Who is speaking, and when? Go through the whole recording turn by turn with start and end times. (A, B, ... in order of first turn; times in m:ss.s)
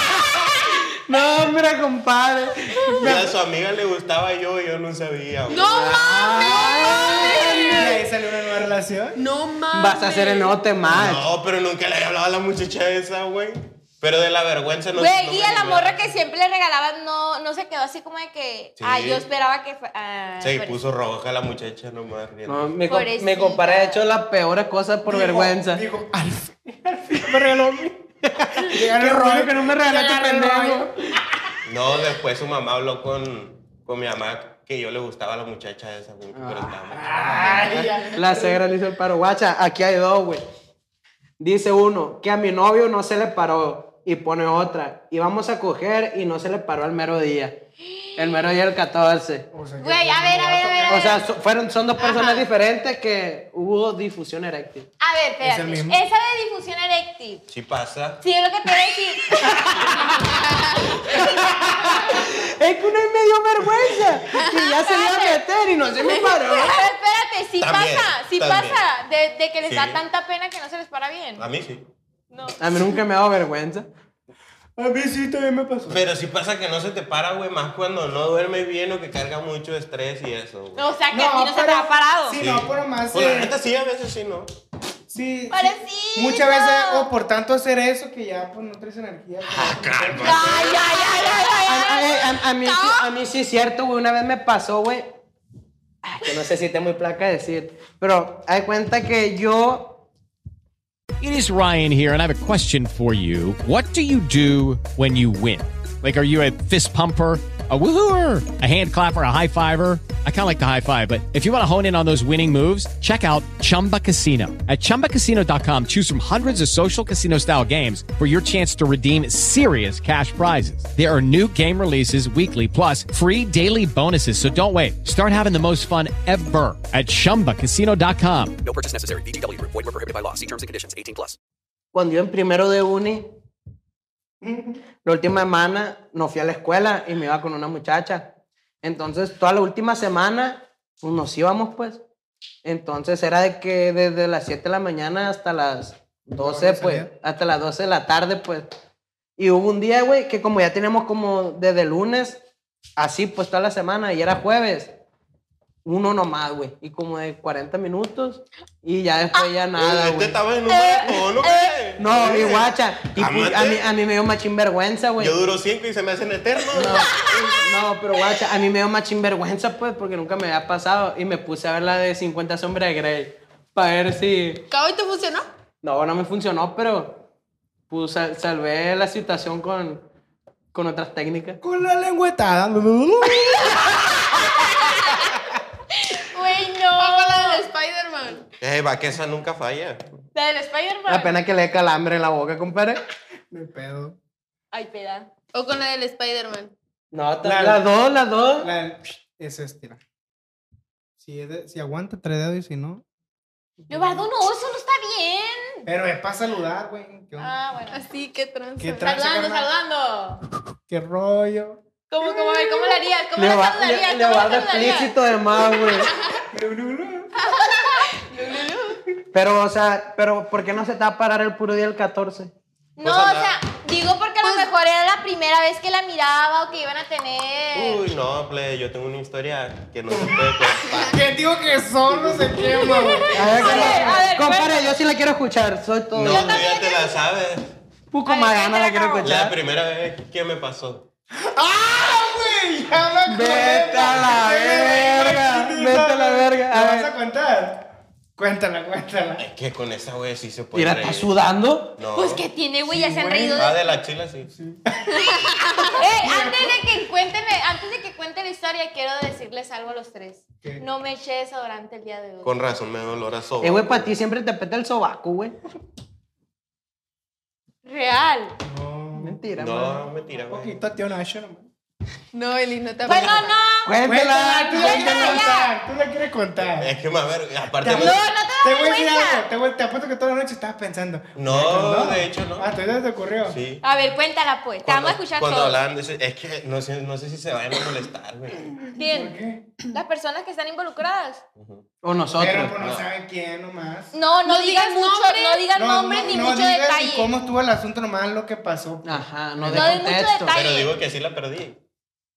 0:01.1-0:03.3 A
0:03.0-0:05.7 B
0:05.5-0:07.9 C
0:05.6-0:08.0 A
0:06.4-0:07.8 D
0:07.7-0:09.2 E
0:09.2-0:10.6 C
0:09.7-0:11.3 A
0:10.9-0:16.0 B
0:15.0-0:20.8 D
0:18.8-0:19.2 B
0:20.4-0:22.7 B
0:22.5-0:25.8 A
0:22.9-0:24.0 D
0:25.0-0:28.0 E
0:28.4-0:31.2 A
0:28.6-0:30.9 E
0:31.6-0:38.0 B
0:36.3-0:40.4 A
0:36.9-0:38.6 E
0:41.4-0:47.6 A
0:47.9-0:48.3 D
0:48.2-0:49.5 A
0:49.5-0:51.2 E
0:49.8-0:51.2 D
0:50.9-0:54.9 A
0:52.0-0:52.5 C
0:55.0-0:57.4 D
0:55.4-0:56.0 E
0:57.5-0:58.2 B
0:58.2-1:01.3 D
1:01.4-1:06.8 A
1:04.5-1:05.4 D
1:06.0-1:11.4 D
1:07.6-1:08.8 B
1:09.7-1:10.0 B
1:11.4-1:11.9 B
1:12.3-1:12.6 D
1:12.6-1:13.9 A
1:14.8-1:16.0 E
1:15.9-1:20.8 B
1:20.7-1:22.4 D
1:21.1-1:23.5 E
1:22.4-1:24.5 B
1:25.1-1:30.7 E
1:25.5-1:27.1 D
1:29.4-1:30.8 B
1:30.2-1:33.1 D
1:31.6-1:35.2 A
1:36.0-1:40.0 A
1:41.2-2:08.6 F
2:08.6-2:11.4 G
2:11.9-2:13.3 A
2:14.4-2:14.8 E
2:15.0-2:22.0 A
2:22.6-2:28.7 A
2:26.3-2:27.1 E
2:29.4-2:32.4 A
2:33.0-2:34.9 A
2:35.8-2:40.4 A
2:39.8-2:43.9 B
2:40.7-2:41.8 D
2:42.0-2:45.4 A
2:45.2-2:47.2 B
2:46.7-2:54.6 A
2:47.0-2:47.6 D
2:54.7-2:55.5 C
2:55.8-2:57.2 A
2:57.9-3:00.0 A
3:00.7-3:01.6 A
3:01.6-3:05.6 E
3:04.6-3:05.2 D
3:05.9-3:07.6 D
3:07.0-3:08.4 C
3:08.6-3:10.0 B
3:10.4-3:11.4 D
3:11.1-3:13.0 A
3:13.5-3:14.2 E
3:14.7-3:15.3 D
3:15.5-3:16.7 C
3:17.1-3:18.7 A
3:17.4-3:17.8 E
3:18.6-3:20.0 E
3:21.2-3:23.0 E
3:23.9-3:25.9 D
3:23.9-3:24.2 E
3:25.9-3:27.5 E
3:27.4-3:28.0 D
3:27.9-3:29.1 C
3:28.8-3:29.7 E
3:29.0-3:30.4 D
3:30.9-3:31.8 E
3:32.1-3:35.2 D
3:32.2-3:33.0 C
3:33.4-3:36.1 A
3:36.5-3:37.3 E
3:37.5-3:38.7 C
3:37.5-3:38.9 D
3:39.3-3:42.5 A
3:43.0-3:48.0 D
3:43.0-3:43.5 B
3:44.4-3:44.7 C
3:47.7-3:51.2 B
3:51.0-3:54.2 E
3:52.6-3:55.0 D
3:53.3-3:56.6 A
3:53.5-3:54.1 B
3:56.1-3:57.7 B
3:56.3-3:57.1 D
3:58.1-3:59.6 A
3:58.2-3:59.3 D
3:59.2-4:01.1 B
4:01.4-4:09.4 E
4:03.3-4:07.1 A
4:09.4-4:11.3 B
4:10.7-4:12.0 A
4:12.0-4:12.4 B
4:12.2-4:13.8 D
4:12.9-4:13.8 E
4:13.6-4:14.5 B
4:14.6-4:15.3 E
4:15.1-4:15.9 C
4:16.0-4:22.5 D
4:16.0-4:16.9 E
4:22.4-4:24.1 B
4:23.6-4:25.6 A
4:27.8-4:28.6 D
4:28.6-4:29.4 E
4:29.2-4:30.0 A
4:29.6-4:30.8 B
4:30.5-4:31.7 E
4:32.3-4:33.6 C
4:33.0-4:35.7 D
4:33.8-4:35.4 A
4:34.0-4:37.0 E
4:36.8-4:38.2 B
4:37.8-4:43.6 E
4:37.8-4:39.4 D
4:41.4-4:42.7 B
4:43.4-4:43.8 B
4:43.8-4:45.8 D
4:44.8-4:48.7 B
4:49.0-4:49.4 D
4:49.0-4:49.8 E
4:49.9-4:51.4 D
4:51.6-4:51.8 B
4:52.0-4:52.8 A
4:52.4-4:54.1 E
4:52.8-4:53.0 B
4:54.1-4:57.3 D
4:54.4-4:56.4 C
4:55.7-5:00.0 E
4:59.0-5:00.6 A
4:59.7-5:00.9 D
5:00.5-5:01.8 B